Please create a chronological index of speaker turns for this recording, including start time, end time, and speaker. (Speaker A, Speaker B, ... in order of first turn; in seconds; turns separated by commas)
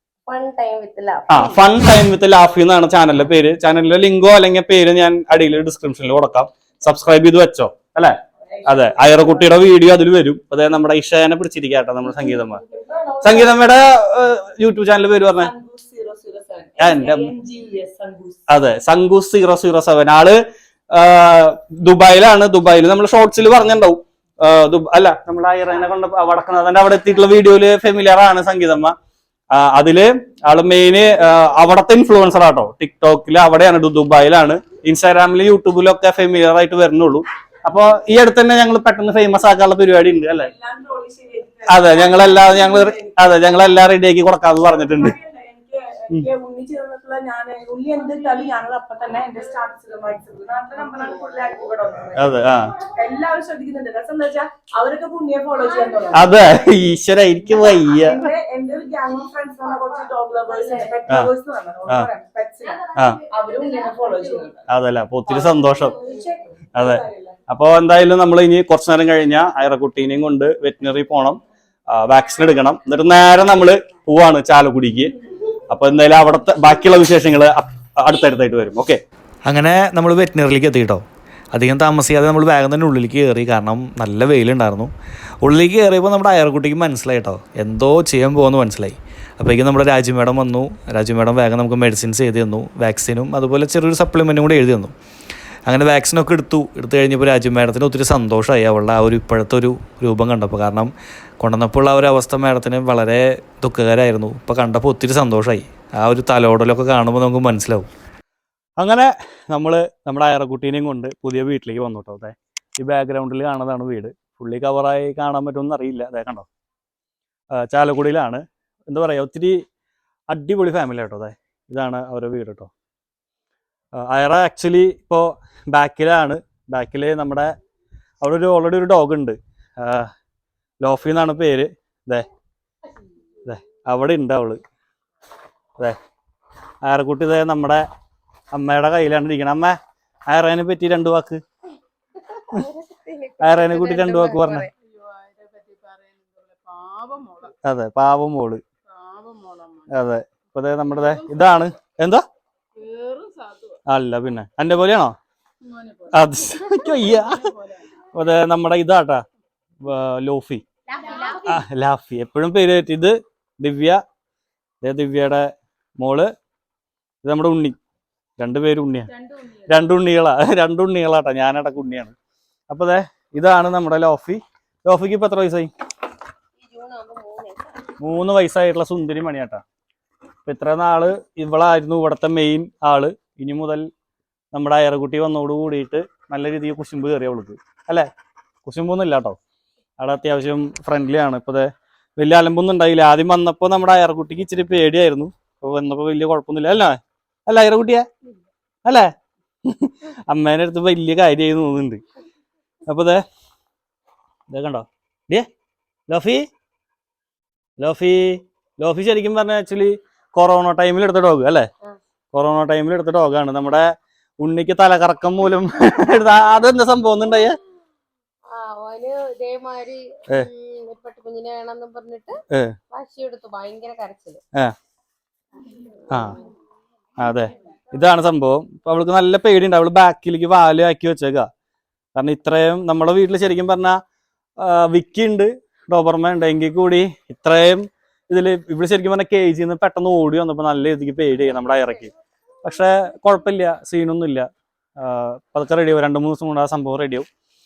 Speaker A: 0.3-1.6, Speaker B: 1.3-12.6, Speaker C: 8.5-9.6, Speaker C: 12.4-13.7, Speaker B: 13.2-15.5, Speaker C: 15.4-18.4, Speaker B: 16.8-17.3, Speaker B: 18.5-20.4, Speaker B: 20.9-28.9, Speaker B: 29.5-40.5, Speaker C: 40.4-43.4, Speaker B: 41.7-45.1, Speaker C: 44.7-56.5, Speaker B: 52.2-52.8, Speaker A: 55.8-56.3, Speaker B: 56.1-58.2, Speaker C: 57.6-64.6, Speaker A: 60.5-61.0, Speaker A: 62.6-64.5, Speaker B: 64.7-66.0, Speaker C: 65.3-67.4, Speaker B: 66.8-75.1, Speaker B: 75.7-94.9, Speaker B: 95.7-107.9, Speaker B: 108.8-116.5, Speaker B: 117.5-119.6, Speaker B: 120.3-122.7, Speaker B: 123.9-127.5, Speaker B: 128.2-130.1, Speaker B: 130.8-132.3, Speaker B: 133.4-134.6, Speaker B: 136.8-137.8, Speaker B: 138.5-139.8, Speaker B: 140.3-141.4, Speaker A: 142.3-144.7, Speaker B: 143.4-144.7, Speaker D: 144.8-147.6, Speaker B: 147.6-148.6, Speaker D: 148.9-149.9, Speaker B: 149.9-152.2, Speaker D: 151.1-151.3, Speaker D: 152.8-153.8, Speaker B: 153.9-155.2, Speaker D: 155.6-157.8, Speaker B: 156.1-157.5, Speaker B: 158.1-159.2, Speaker B: 159.8-160.6, Speaker A: 160.9-161.6, Speaker B: 161.4-164.0, Speaker B: 164.8-166.3, Speaker B: 167.2-167.8, Speaker B: 168.4-169.1, Speaker D: 169.1-169.7, Speaker B: 169.7-172.1, Speaker B: 172.7-175.7, Speaker A: 176.6-177.9, Speaker B: 178.0-179.6, Speaker B: 180.4-183.9, Speaker B: 184.5-188.1, Speaker B: 188.7-189.4, Speaker B: 190.0-198.1, Speaker B: 198.8-199.1, Speaker B: 199.7-202.0, Speaker B: 202.9-203.2, Speaker B: 204.5-205.5, Speaker B: 206.1-206.5, Speaker B: 207.8-211.7, Speaker B: 212.3-213.9, Speaker B: 214.4-217.6, Speaker A: 218.5-222.4, Speaker B: 222.5-222.8, Speaker A: 222.9-224.4, Speaker B: 226.1-226.4, Speaker B: 227.2-231.5, Speaker B: 232.2-234.0, Speaker B: 234.6-242.1, Speaker B: 242.6-244.5, Speaker B: 245.0-247.3